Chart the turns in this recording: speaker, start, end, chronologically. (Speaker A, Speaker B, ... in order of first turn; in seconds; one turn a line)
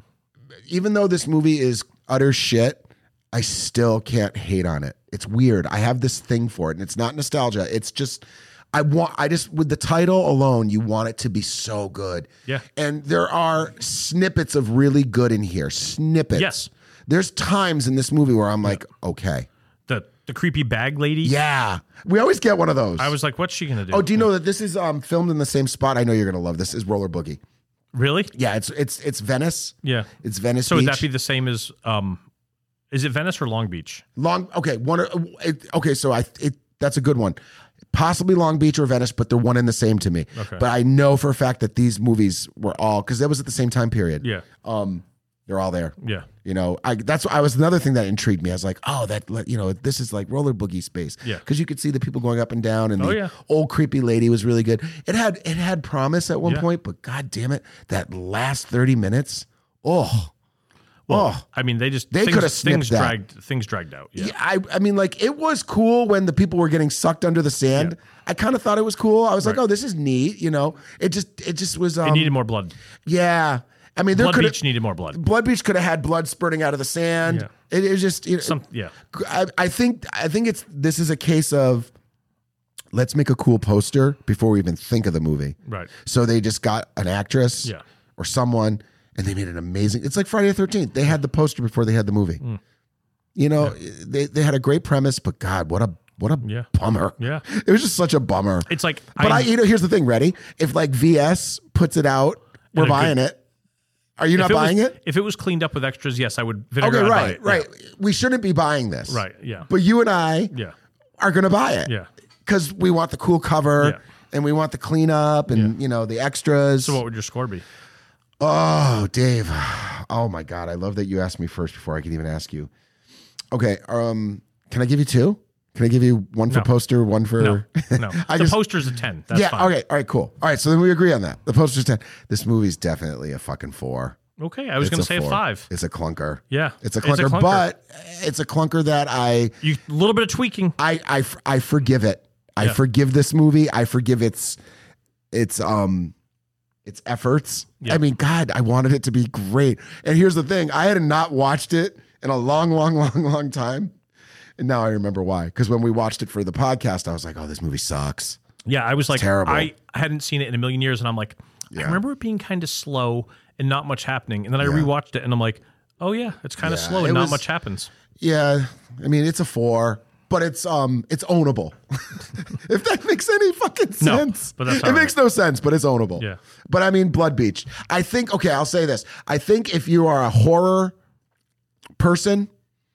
Speaker A: 0.7-16.5
Speaker B: 16.4-16.7
Speaker A: 17.1-19.5
Speaker B: 19.9-21.4
Speaker A: 21.2-23.1
Speaker B: 23.0-24.3
Speaker A: 23.9-27.4
Speaker B: 27.9-28.3
Speaker A: 28.3-31.1
Speaker B: 29.8-30.1
Speaker B: 30.6-32.2
Speaker B: 32.9-34.0
Speaker A: 34.2-37.4
Speaker A: 37.9-60.3
Speaker B: 40.4-40.6
Speaker B: 46.0-46.3
Speaker B: 53.0-53.3
Speaker B: 61.1-64.3
Speaker A: 61.1-61.4
Speaker A: 62.1-63.1
Speaker A: 64.2-72.3
Speaker B: 72.0-72.8
Speaker A: 73.1-74.6
Speaker B: 74.1-75.2
Speaker A: 75.1-78.6
Speaker B: 78.4-78.9
Speaker A: 79.1-81.9
Speaker A: 82.9-92.4
Speaker A: 93.4-103.4
Speaker B: 96.4-97.5
Speaker B: 98.7-99.5
Speaker B: 102.7-103.2
Speaker A: 104.2-105.0
Speaker B: 104.3-107.7
Speaker A: 106.8-110.5
Speaker B: 109.1-109.7
Speaker A: 111.2-111.9
Speaker A: 112.5-117.0
Speaker B: 116.8-117.7
Speaker A: 118.4-122.7
Speaker A: 123.5-128.6
Speaker B: 127.4-129.7
Speaker A: 129.3-134.2
Speaker B: 134.4-135.7
Speaker A: 134.8-139.6
Speaker B: 136.5-137.7
Speaker B: 139.6-140.8
Speaker A: 140.8-144.6
Speaker A: 145.3-146.1
Speaker A: 146.8-153.9
Speaker A: 154.6-158.4
Speaker B: 158.7-167.9
Speaker A: 159.1-159.7
Speaker A: 161.7-162.0
Speaker A: 164.6-164.9
Speaker A: 166.6-167.4
Speaker A: 168.2-180.9
Speaker B: 174.0-175.1
Speaker A: 182.0-182.5